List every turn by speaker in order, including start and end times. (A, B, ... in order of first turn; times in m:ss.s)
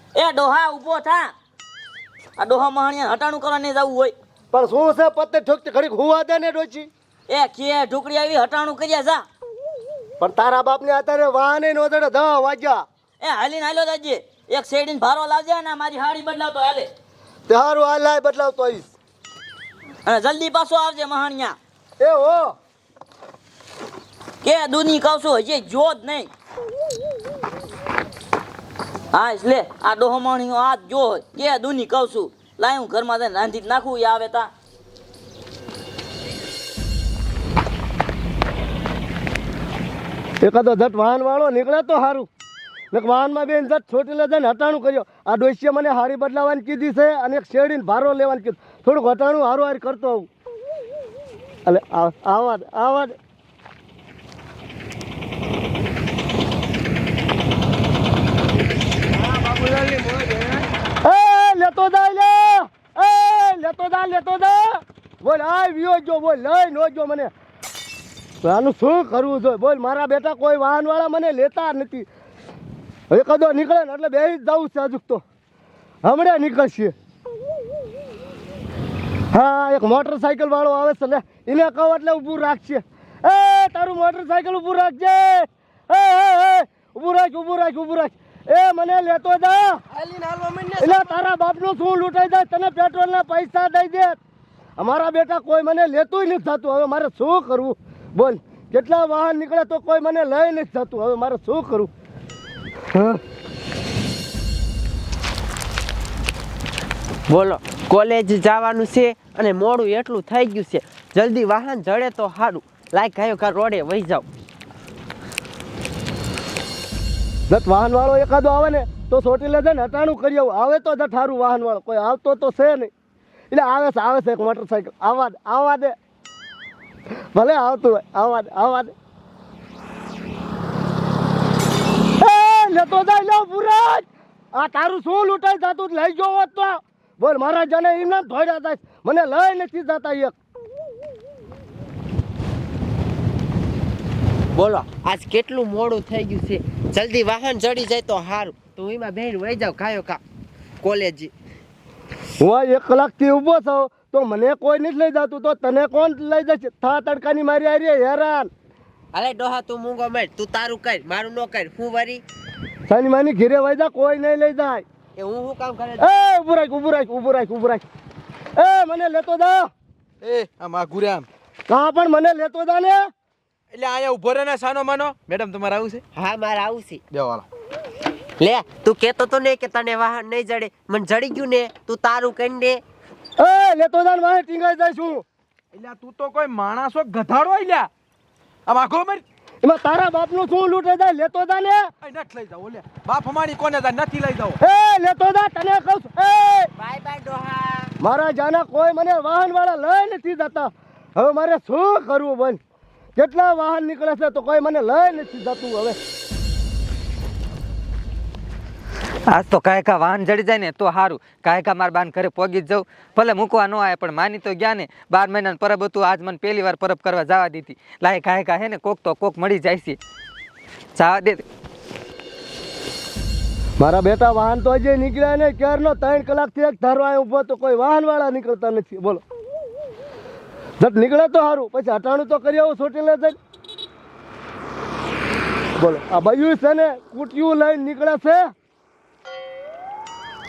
0:00.2-0:01.3 A
0:02.4-0:04.1 A
0:04.5-0:06.9 B
0:07.3-0:09.2 A
0:10.2-0:12.8 B
0:13.2-0:16.9 A
0:17.5-0:18.9 B
0:20.0-0:21.6 A
0:22.0-0:22.5 B
0:24.4-0:26.3 A
0:29.1-0:34.5 A
0:40.4-0:42.3 B
0:42.9-0:50.3 B
0:51.6-0:53.2 B
1:01.0-1:07.3 B
1:08.4-1:12.1 B
1:13.1-1:15.2 B
1:16.0-1:16.9 B
1:19.3-1:29.8 B
1:30.8-1:34.2 B
1:34.8-1:41.9 B
1:42.9-1:43.2 B
1:47.3-1:54.3 C
1:57.5-2:02.9 B
2:03.5-2:05.9 B
2:07.3-2:08.9 B
2:12.2-2:20.3 B
2:24.5-2:30.2 C
2:30.8-2:31.3 C
2:32.4-2:38.5 B
2:39.1-2:42.2 C
2:42.9-2:44.8 B
2:45.2-2:46.0 C
2:46.0-2:47.8 B
2:48.6-2:49.7 B
2:50.2-2:51.2 D
2:51.7-2:53.0 B
2:53.8-2:56.0 D
2:56.1-2:57.0 C
2:57.1-2:57.4 D
2:58.4-3:02.8 C
3:03.4-3:05.2 B
3:05.7-3:07.9 D
3:08.7-3:09.2 D
3:09.6-3:11.8 B
3:12.0-3:14.5 D
3:14.6-3:16.7 B
3:16.8-3:17.9 C
3:18.0-3:22.6 B
3:23.2-3:26.0 B
3:29.3-3:40.0 E
3:40.9-3:41.4 E
3:43.8-3:49.2 B
3:50.8-3:53.4 B
3:55.8-3:58.5 B